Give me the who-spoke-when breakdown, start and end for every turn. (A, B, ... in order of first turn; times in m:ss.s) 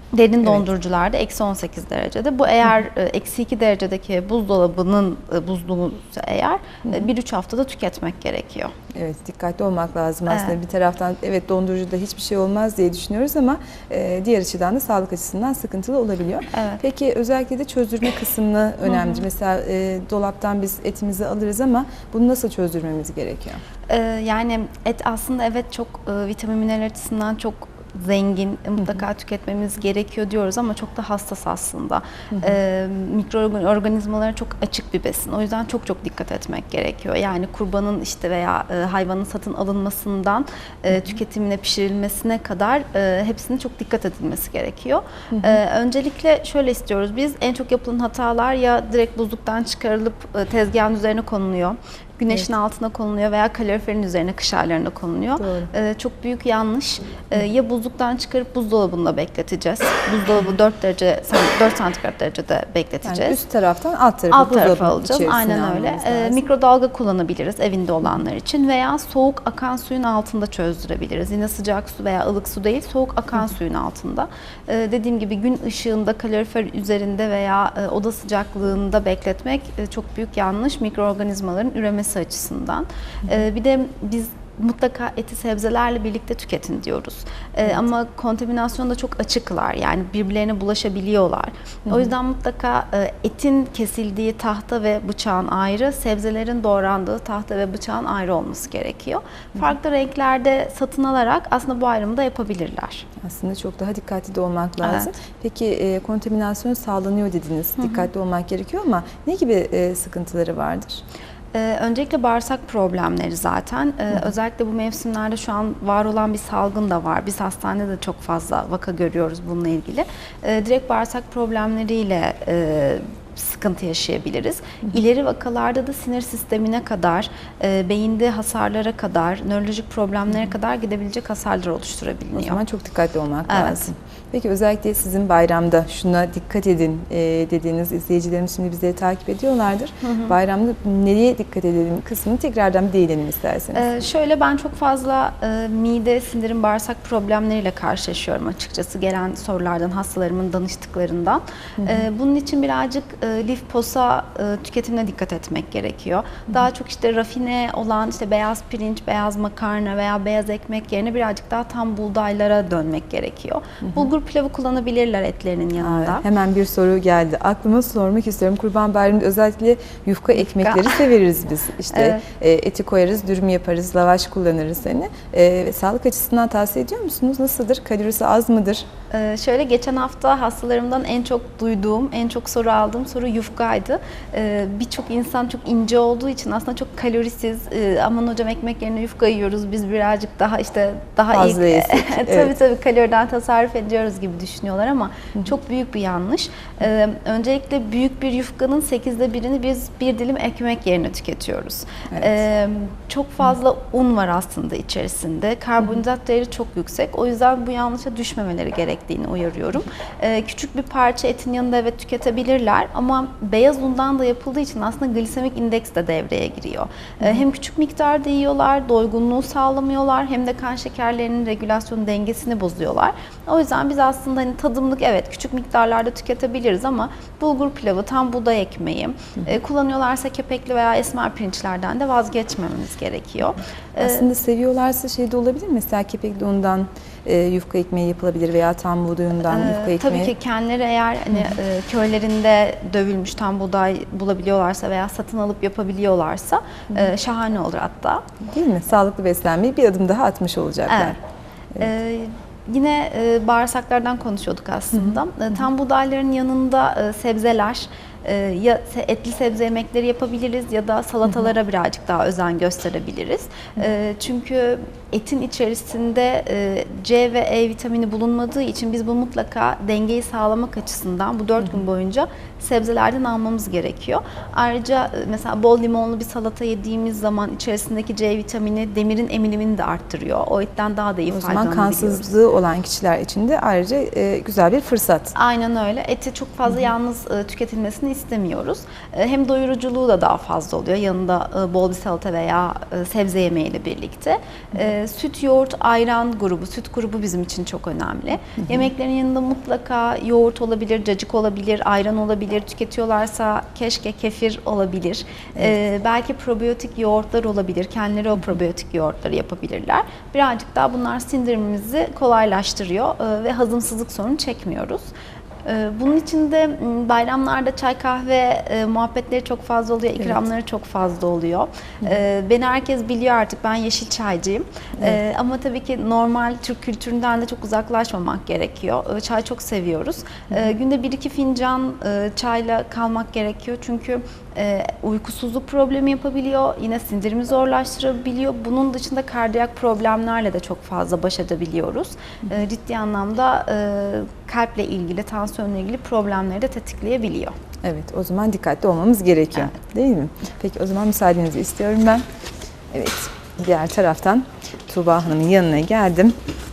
0:00.1-0:08.7 A
0:08.9-0:23.6 B
0:10.3-0:10.6 A
0:16.5-0:16.8 A
0:18.9-0:19.2 A
0:23.9-1:03.4 A
0:28.8-0:29.0 B
0:45.3-0:45.6 B
0:55.4-0:55.7 B
1:03.0-1:06.4 B
1:04.3-1:43.1 A
1:43.2-1:51.0 B
1:44.8-1:45.1 A
1:47.8-1:48.1 A
1:51.5-2:12.6 A
2:12.4-2:23.8 B
2:13.5-2:13.9 A
2:20.0-2:20.4 A
2:23.7-2:46.2 A
2:31.8-2:32.1 B
2:45.8-2:58.9 B
2:50.4-2:51.1 A
2:51.9-2:52.2 A
2:59.1-3:54.3 A
3:11.3-3:12.5 B
3:54.0-4:00.3 B
3:59.4-4:08.3 A
4:08.4-4:11.2 B
4:10.9-4:11.2 A
4:11.8-4:42.3 A
4:14.9-4:15.2 B
4:41.3-4:45.3 B
4:45.4-5:15.1 A
4:58.6-4:58.9 B
5:15.6-5:47.6 A
5:47.8-5:52.2 B
5:52.9-5:56.4 B